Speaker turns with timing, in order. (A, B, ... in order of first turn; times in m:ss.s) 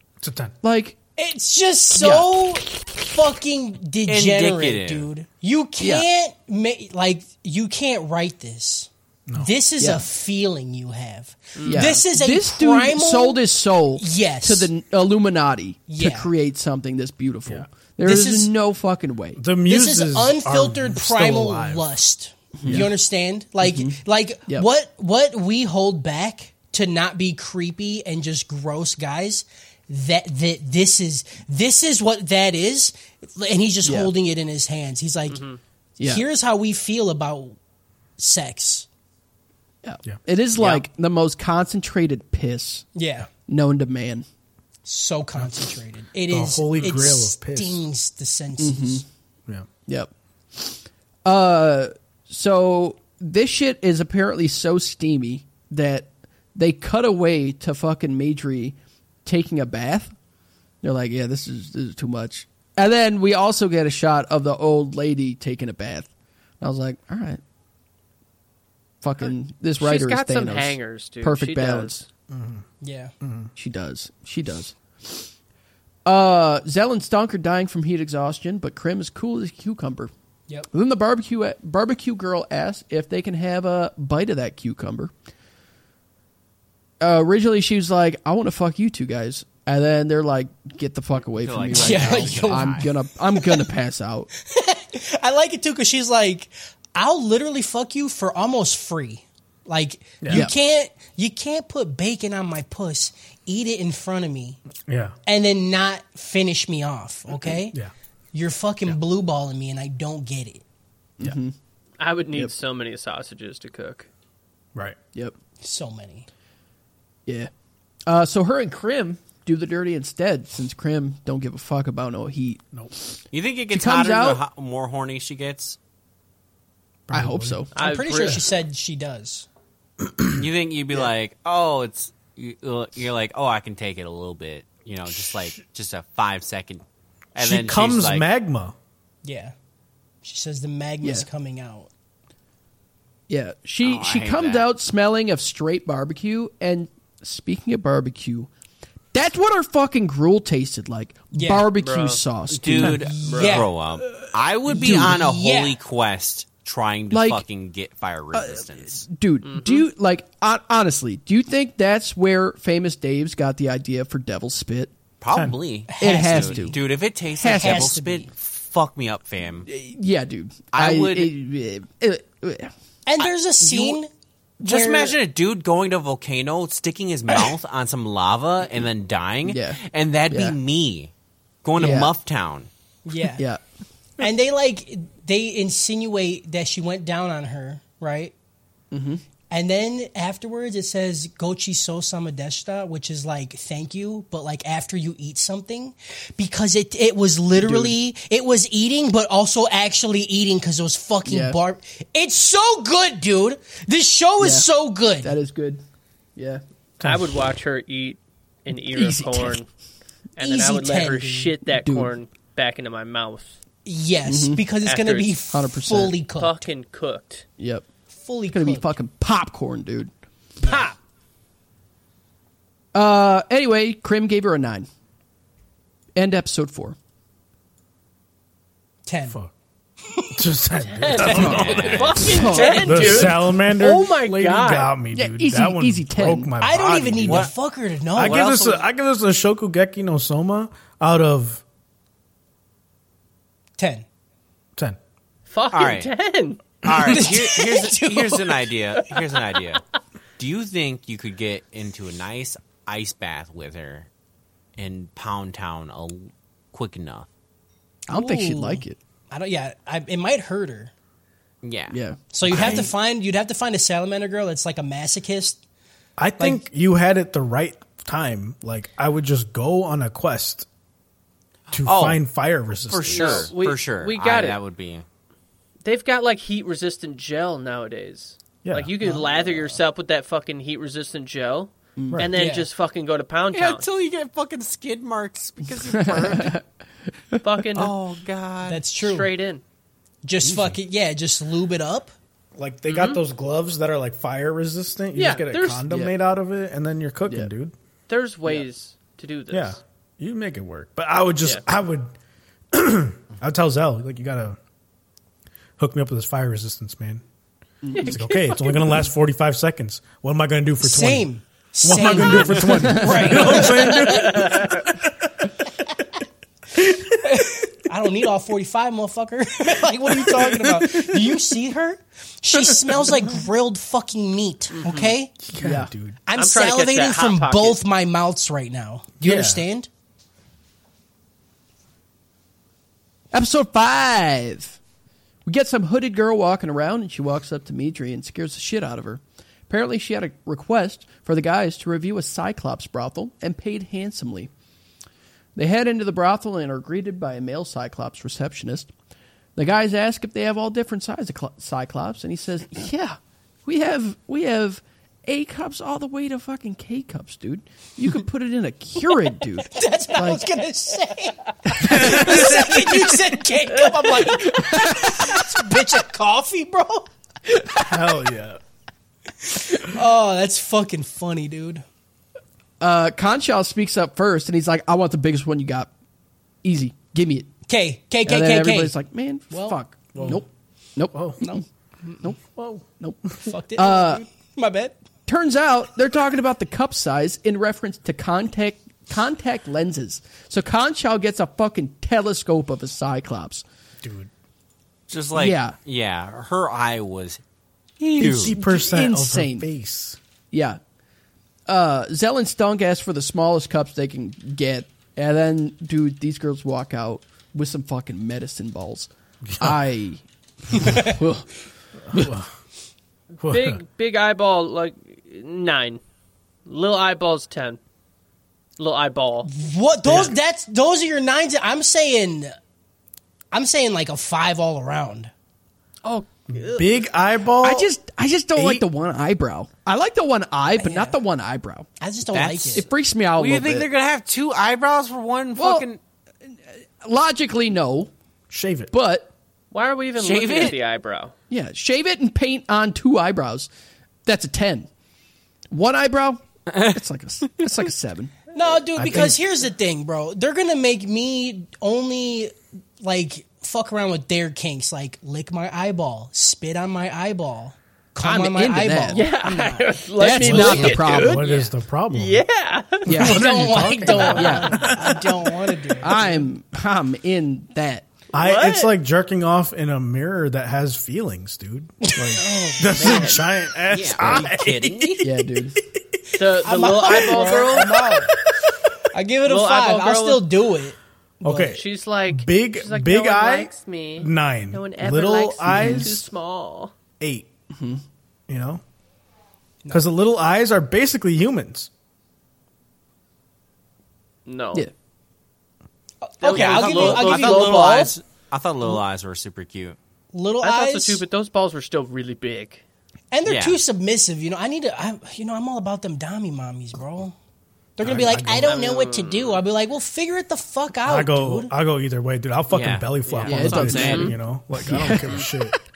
0:00.2-0:00.5 A
0:00.6-0:01.0 B
0:01.2-0:13.4 C
0:01.9-0:02.5 B
0:04.1-0:05.1 D
0:05.8-0:06.1 B
0:09.8-0:10.0 B
0:11.6-0:12.0 E
0:11.6-0:19.4 B
0:14.0-0:14.7 C
0:15.9-0:16.3 C
0:18.0-0:18.5 C
0:19.4-0:21.8 A
0:19.6-0:35.5 C
0:22.6-0:22.9 B
0:22.6-0:22.9 A
0:23.6-0:24.7 B
0:33.8-0:34.1 B
0:35.3-0:35.6 E
0:36.0-0:36.2 B
0:36.0-0:37.6 C
0:38.2-0:38.9 C
0:39.8-0:42.9 B
0:42.9-0:43.3 C
0:43.5-0:44.2 B
0:44.8-0:49.0 C
0:46.3-0:47.8 A
0:48.6-0:49.0 B
0:49.9-1:00.1 B
1:00.8-1:07.4 B
1:09.0-1:12.0 B
1:09.8-1:12.0 E
1:12.3-1:12.6 A
1:12.8-1:13.1 C
1:13.2-1:13.5 A
1:13.6-1:15.3 B
1:16.0-1:20.1 B
1:20.7-1:25.1 B
1:27.0-1:34.3 B
1:31.3-1:32.9 D
1:31.7-1:32.8 C
1:34.4-1:44.6 C
1:40.2-1:40.4 A
1:44.9-1:45.1 A
1:45.2-1:47.8 C
1:48.3-1:50.6 C
1:51.2-1:51.5 B
1:52.0-1:54.1 E
1:55.6-1:56.3 C
1:57.2-1:57.5 B
1:58.1-2:02.6 B
2:03.3-2:05.8 D
2:03.7-2:04.4 B
2:07.1-2:07.7 A
2:07.1-2:07.7 B
2:07.7-2:08.4 E
2:07.8-2:09.5 C
2:10.0-2:10.4 A
2:10.3-2:16.8 D
2:17.3-2:18.3 D
2:17.4-2:18.7 A
2:19.2-2:19.5 C
2:20.2-2:21.9 C
2:23.3-2:28.5 B
2:23.8-2:24.7 D
2:29.1-2:33.1 B
2:31.3-2:31.7 C
2:31.8-2:32.2 E
2:32.5-2:39.0 D
2:32.8-2:33.7 C
2:33.2-2:33.7 E
2:34.7-2:35.8 C
2:34.7-2:35.2 B
2:37.1-2:37.4 B
2:38.3-2:44.9 B
2:39.4-2:39.8 E
2:45.2-2:49.7 D
2:45.3-2:45.6 A
2:45.9-2:46.8 C
2:46.0-2:46.8 B
2:47.4-2:48.0 B
2:47.6-2:48.3 C
2:49.6-2:52.7 B
2:50.7-2:51.3 D
2:53.0-2:54.1 C
2:53.2-2:54.0 D
2:54.6-2:55.1 C
2:54.6-3:01.1 D
2:59.4-3:00.6 B
3:01.6-3:02.7 D
3:01.8-3:02.1 B
3:03.0-3:03.4 C
3:04.2-3:08.3 C
3:08.9-3:09.2 B
3:09.5-3:25.4 C
3:17.6-3:18.0 B
3:21.2-3:21.6 B
3:24.4-3:24.7 B
3:25.2-3:25.8 B
3:26.4-3:26.6 B
3:27.0-3:27.5 A
3:27.0-3:29.7 E
3:28.9-3:29.6 B
3:30.4-3:33.6 E
3:30.4-3:31.5 C
3:31.6-3:32.1 B
3:33.8-3:36.7 C
3:34.2-3:34.6 B
3:34.8-3:35.4 E
3:35.5-3:36.2 B
3:36.3-3:37.4 E
3:37.6-3:37.9 B
3:38.1-3:38.9 C
3:38.5-3:40.1 B
3:40.6-3:41.0 C
3:42.9-3:44.9 B
3:46.2-3:47.0 B
3:49.0-3:49.4 C
3:50.1-3:50.4 C
3:50.3-3:57.5 A
3:50.9-3:55.0 E
3:51.2-3:51.5 C
3:51.2-3:52.4 D
3:52.2-3:53.3 B
3:52.4-3:53.1 C
3:55.1-3:56.5 B
3:56.6-3:58.5 C
3:57.2-3:57.5 D
3:58.2-4:01.6 A
3:58.2-3:58.8 D
4:03.8-4:04.0 C
4:05.5-4:06.8 E
4:05.7-4:06.1 D
4:06.8-4:09.8 D
4:06.8-4:07.2 A
4:07.1-4:08.7 C
4:10.4-4:14.1 D
4:14.8-4:17.3 D
4:18.1-4:19.0 B
4:18.1-4:20.9 C
4:21.6-4:22.0 D
4:21.9-4:22.7 B
4:22.3-4:25.6 C
4:22.4-4:22.9 A
4:26.2-4:30.7 A
4:26.4-4:26.6 C
4:31.7-4:33.5 A
4:31.7-4:32.2 D
4:32.9-4:35.0 D
4:33.0-4:34.6 E
4:35.8-4:43.8 E
4:38.6-4:39.0 A
4:39.0-4:39.8 C
4:42.0-4:42.3 B
4:42.3-4:42.7 C
4:43.5-4:46.6 D
4:45.9-4:46.6 B
4:47.4-4:47.9 E
4:47.7-4:48.8 D
4:48.6-4:49.3 C
4:48.9-4:49.6 E
4:50.2-4:52.1 C
4:50.4-4:50.8 A
4:52.6-4:57.7 A
4:52.9-4:53.2 E
4:55.1-4:55.8 E
4:55.9-4:56.1 B
4:58.1-4:59.8 E
4:59.5-5:02.1 A
5:02.7-5:04.6 A
5:05.8-5:07.2 A
5:07.8-5:08.2 B
5:07.9-5:11.3 A
5:10.8-5:14.5 C
5:11.8-5:15.1 A
5:12.8-5:13.2 B
5:14.4-5:14.6 E
5:16.8-5:17.2 A
5:17.2-5:25.4 C
5:20.3-5:21.1 A
5:24.7-5:25.2 E
5:25.4-5:26.2 A
5:25.6-5:25.9 B
5:26.3-5:29.9 C
5:26.3-5:27.8 E
5:29.2-5:29.6 A
5:33.3-5:34.8 B
5:35.4-5:44.5 B
5:45.6-5:48.9 B
5:49.6-6:00.4 B
5:59.7-6:07.1 C
6:01.8-6:02.6 B
6:01.8-6:03.1 A
6:04.4-6:05.5 B
6:07.4-6:08.2 B
6:07.8-6:08.6 A
6:09.5-6:11.8 C
6:12.8-6:15.9 B
6:16.6-6:17.5 B
6:17.7-6:18.9 C
6:18.2-6:21.6 B
6:19.5-6:20.4 C
6:20.1-6:20.4 A
6:21.1-6:21.4 A
6:22.4-6:23.4 A
6:23.0-6:24.2 B
6:23.4-6:25.0 C
6:25.3-6:33.6 B
6:34.0-6:34.3 A
6:35.1-6:37.4 D
6:35.3-6:35.8 B
6:38.0-6:38.6 D
6:38.1-6:39.7 B
6:38.2-6:40.2 A
6:40.5-6:40.8 B
6:41.7-6:51.6 B
6:49.5-6:49.8 A
6:50.8-6:51.1 C
6:52.1-6:52.5 A
6:53.4-6:56.0 E
6:53.4-6:53.8 A
6:56.6-6:57.8 E
6:58.8-6:59.5 E
6:59.4-7:02.5 C
7:00.0-7:00.3 A
7:03.5-7:05.3 C
7:06.0-7:06.9 E
7:06.5-7:07.9 A
7:07.6-7:11.9 B
7:08.6-7:08.8 A
7:10.8-7:11.2 C
7:12.0-7:12.8 C
7:12.3-7:16.0 D
7:12.7-7:13.9 B
7:15.6-7:15.8 B
7:16.4-7:18.1 B
7:18.5-7:18.9 A
7:18.9-7:19.3 B
7:19.7-7:21.3 E
7:20.2-7:20.8 D
7:21.5-7:23.7 B
7:24.2-7:24.9 B
7:25.7-7:28.4 B
7:28.5-7:40.0 C
7:29.0-7:29.3 A
7:38.2-7:39.2 B
7:39.1-7:43.3 E
7:40.2-7:41.4 B
7:40.4-7:42.4 A
7:43.0-7:43.6 B
7:43.1-7:45.5 A
7:43.1-7:46.4 C
7:44.1-7:44.4 E
7:44.2-7:44.9 B
7:46.0-7:48.1 B
7:48.3-7:55.4 A
7:48.4-7:48.9 E
7:52.0-7:53.4 C
7:52.8-7:53.5 E
7:53.9-7:55.2 D
7:55.2-7:55.8 B
7:56.4-7:58.2 E
7:56.6-7:58.3 C
7:59.1-8:01.7 C
7:59.4-8:00.4 E
8:01.4-8:06.3 A
8:01.6-8:06.9 E
8:05.7-8:06.1 B
8:07.2-8:07.5 A
8:07.7-8:08.0 B
8:08.5-8:08.8 A
8:09.9-8:11.9 A
8:14.4-8:14.9 E
8:16.2-8:18.1 C
8:16.4-8:18.1 E
8:16.4-8:20.0 D
8:20.3-8:21.2 C
8:20.6-8:22.8 E
8:23.3-8:27.3 C
8:23.4-8:23.8 D
8:28.0-8:31.7 C
8:28.0-8:28.7 A
8:28.6-8:29.6 E
8:31.0-8:35.8 A
8:32.7-8:34.4 D
8:33.4-8:35.5 B
8:34.0-8:34.4 E